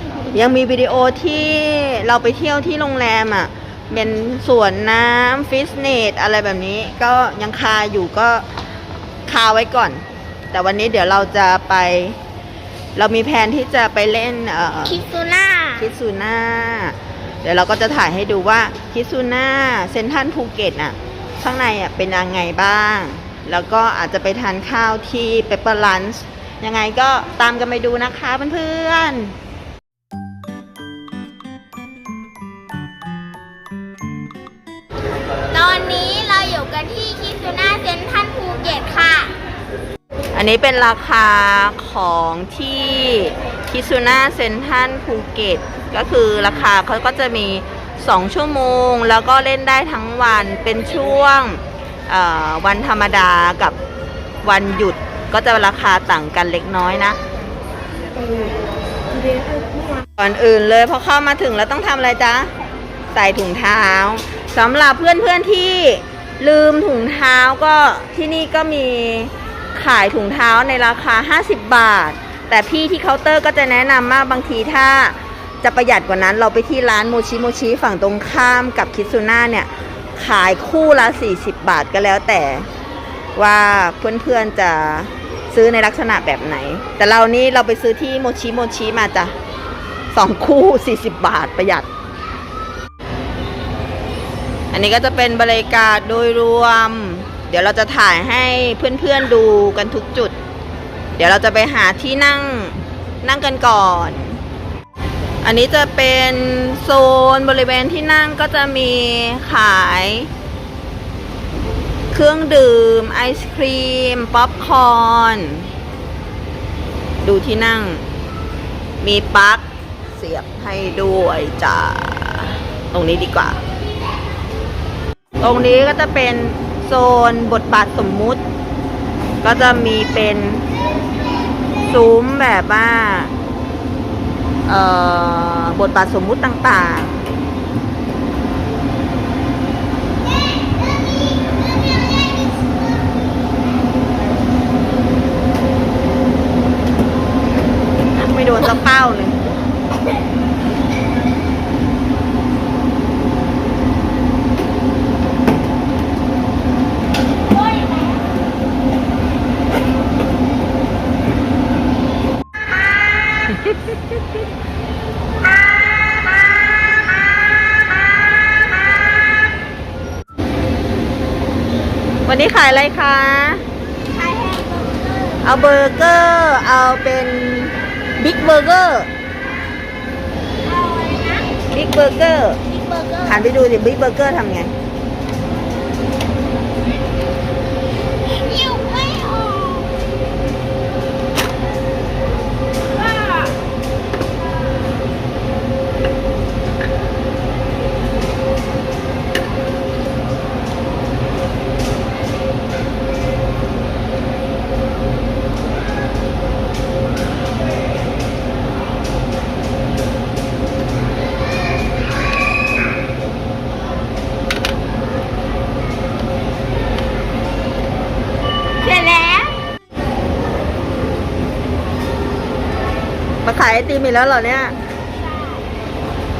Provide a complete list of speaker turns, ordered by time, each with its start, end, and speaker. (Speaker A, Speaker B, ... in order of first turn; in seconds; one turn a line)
Speaker A: 0.3-8.4
Speaker A: 9.3-12.2
Speaker A: 13.0-15.0
Speaker B: 14.8-15.9
Speaker A: 15.8-29.3
Speaker B: 35.5-39.3
Speaker A: 40.3-53.8
Speaker A: 54.4-57.2
Speaker A: 60.2-62.5
Speaker A: 63.1-82.7
Speaker A: 83.4-89.3
Speaker A: 90.1-91.9
Speaker A: 94.7-100.3
Speaker A: 101.2-104.4
Speaker A: 105.4-110.3
Speaker A: 112.1-115.7
Speaker A: 117.2-118.0
Speaker A: 119.0-123.6
Speaker A: 125.4-128.4
Speaker A: 129.4-130.7
Speaker A: 131.8-133.3
Speaker A: 134.7-137.2
Speaker A: 148.2-149.4
Speaker B: 157.4-158.3
Speaker B: 165.7-166.3
Speaker A: 172.3-173.6
Speaker B: 174.1-175.5
Speaker A: 175.4-179.1
Speaker B: 180.6-181.5
Speaker A: 181.7-182.6
Speaker B: 182.7-183.5
Speaker A: 183.2-184.7
Speaker B: 188.3-189.9
Speaker B: 192.9-193.6
Speaker B: 218.8-219.6
Speaker A: 223.4-224.8
Speaker B: 225.1-225.7